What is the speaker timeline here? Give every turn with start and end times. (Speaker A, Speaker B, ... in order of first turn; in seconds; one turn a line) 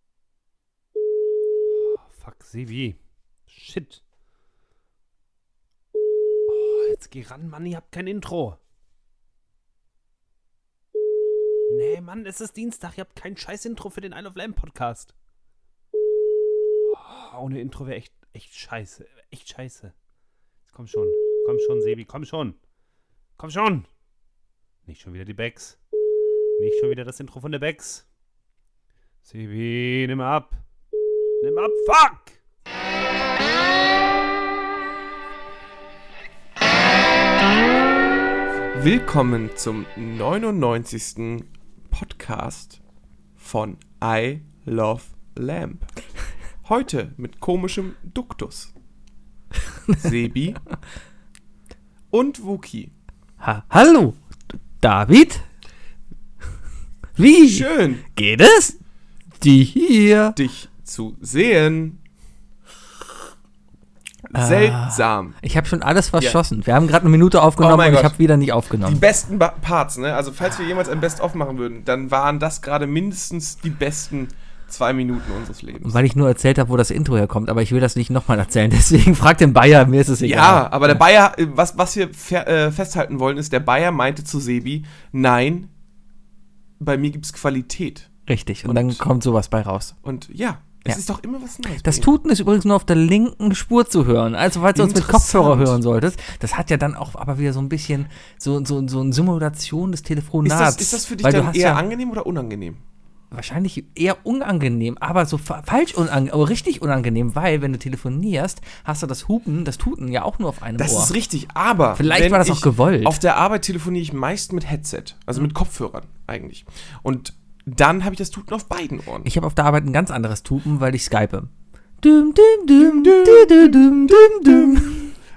Speaker A: 1.8-4.0
Speaker A: 6.5-8.6
Speaker A: 11.7-15.1
Speaker A: 16.9-19.9
Speaker A: 20.7-22.6
Speaker A: 23.4-23.9
Speaker A: 24.8-25.8
Speaker A: 26.6-28.0
Speaker A: 29.2-30.6
Speaker A: 31.4-32.4
Speaker B: 38.7-42.8
Speaker B: 43.4-45.9
Speaker B: 46.6-48.7
Speaker B: 50.0-50.6
Speaker B: 52.1-52.9
Speaker C: 53.4-54.2
Speaker C: 54.8-55.4
Speaker C: 57.2-58.8
Speaker B: 57.4-58.0
Speaker C: 59.4-60.4
Speaker B: 60.3-62.0
Speaker B: 64.3-65.4
Speaker C: 64.3-69.0
Speaker B: 67.6-68.2
Speaker B: 68.8-76.0
Speaker C: 75.8-81.0
Speaker B: 80.2-85.7
Speaker B: 86.8-88.1
Speaker C: 88.3-89.9
Speaker B: 88.6-89.0
Speaker B: 90.0-92.1
Speaker C: 91.8-101.8
Speaker B: 94.7-95.8
Speaker B: 100.5-102.8
Speaker C: 103.3-111.1
Speaker B: 110.8-119.3
Speaker C: 112.0-113.2
Speaker C: 119.2-121.5
Speaker C: 122.0-125.1
Speaker B: 122.8-124.9